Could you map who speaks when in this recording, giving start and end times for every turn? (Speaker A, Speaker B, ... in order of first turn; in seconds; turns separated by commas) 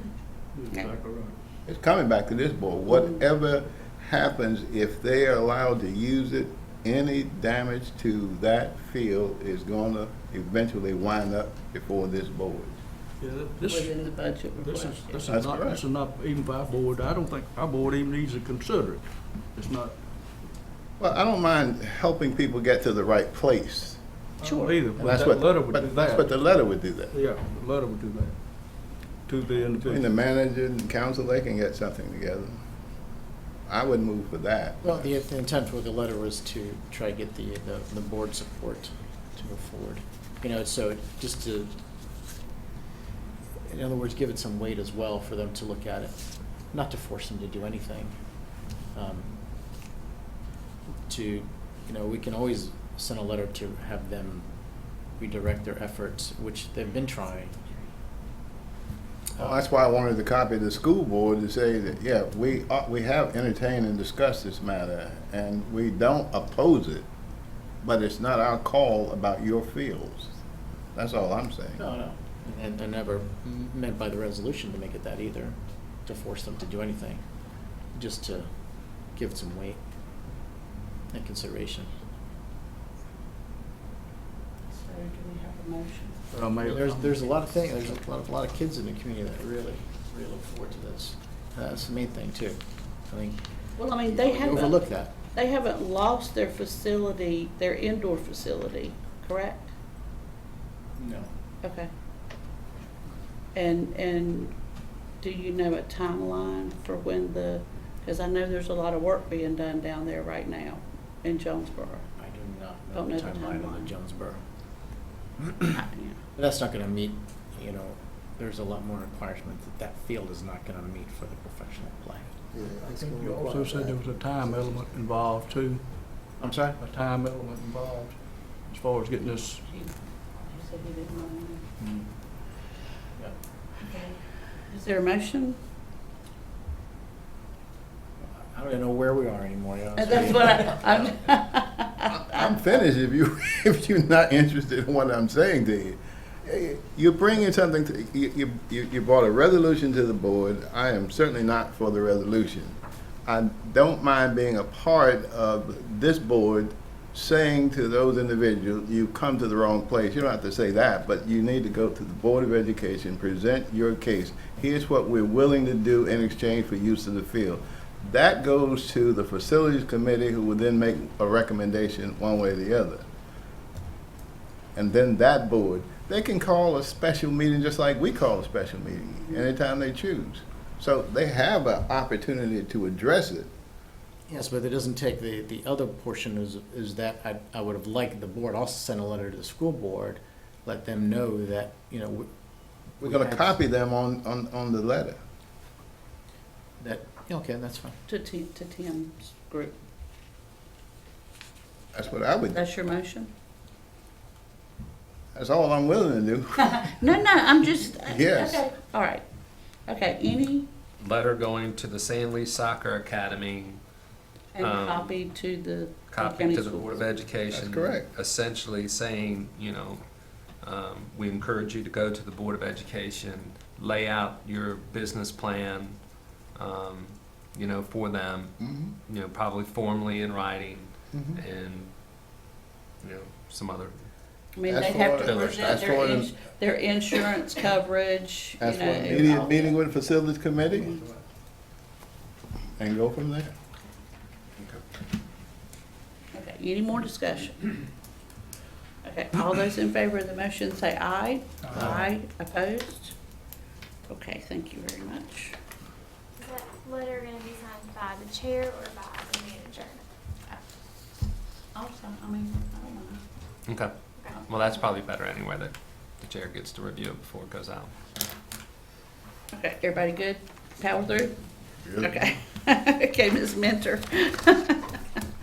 Speaker A: 0.5-1.4, Speaker B: 1.6-12.8, Speaker C: 2.9-3.1, Speaker A: 13.2-14.0, Speaker C: 13.7-15.1, Speaker A: 14.5-20.0, Speaker B: 15.2-15.8, Speaker B: 21.0-24.0, Speaker A: 24.4-26.3, Speaker C: 24.4-24.7, Speaker B: 25.0-27.1, Speaker A: 27.1-30.1, Speaker B: 29.8-32.5, Speaker B: 33.7-35.0, Speaker D: 34.8-41.7, Speaker D: 43.7-48.1, Speaker D: 48.9-49.4, Speaker D: 51.1-54.5, Speaker D: 55.2-57.6, Speaker B: 59.4-67.0, Speaker B: 67.8-70.3, Speaker B: 70.9-71.8, Speaker D: 71.8-77.2, Speaker D: 77.9-78.5, Speaker D: 79.1-79.8, Speaker D: 81.1-81.9, Speaker C: 84.7-86.2, Speaker A: 86.3-87.2, Speaker D: 86.6-93.5, Speaker C: 93.8-94.8, Speaker D: 94.0-95.1, Speaker C: 95.3-99.7, Speaker D: 101.0-101.3, Speaker C: 101.6-101.9, Speaker C: 103.5-104.5, Speaker C: 105.2-112.1, Speaker D: 112.2-114.4, Speaker C: 112.9-113.9, Speaker C: 115.7-116.2, Speaker D: 116.3-122.3, Speaker B: 122.5-123.6, Speaker A: 122.8-126.2, Speaker D: 123.4-124.0, Speaker D: 126.4-126.8, Speaker A: 126.8-129.6, Speaker C: 129.7-131.6, Speaker C: 133.8-135.6, Speaker D: 138.2-140.8, Speaker C: 140.0-142.4, Speaker B: 142.1-173.0, Speaker B: 174.7-183.5, Speaker D: 184.3-192.3, Speaker D: 193.0-193.6, Speaker B: 193.0-195.2, Speaker D: 196.8-197.9, Speaker C: 198.1-199.8, Speaker B: 201.9-202.6, Speaker C: 202.5-203.3, Speaker B: 205.3-206.8, Speaker C: 206.6-209.2, Speaker B: 208.0-208.6, Speaker C: 209.9-210.7, Speaker E: 211.0-213.8, Speaker C: 214.5-217.1, Speaker E: 214.6-215.1, Speaker E: 216.1-220.0, Speaker B: 217.5-218.1, Speaker E: 220.6-226.0, Speaker E: 226.5-231.9, Speaker B: 228.6-228.9, Speaker B: 231.1-231.4, Speaker E: 233.0-233.9, Speaker C: 234.5-239.8, Speaker B: 234.7-236.3, Speaker E: 235.2-235.9, Speaker B: 238.6-240.9, Speaker B: 242.8-243.5, Speaker C: 246.3-247.7, Speaker C: 249.0-253.1, Speaker C: 254.1-255.5, Speaker F: 256.4-260.0, Speaker C: 261.7-263.2, Speaker E: 263.7-263.9, Speaker C: 264.3-264.6, Speaker E: 264.4-267.9, Speaker C: 269.5-271.3, Speaker B: 271.8-272.2, Speaker C: 272.0-275.2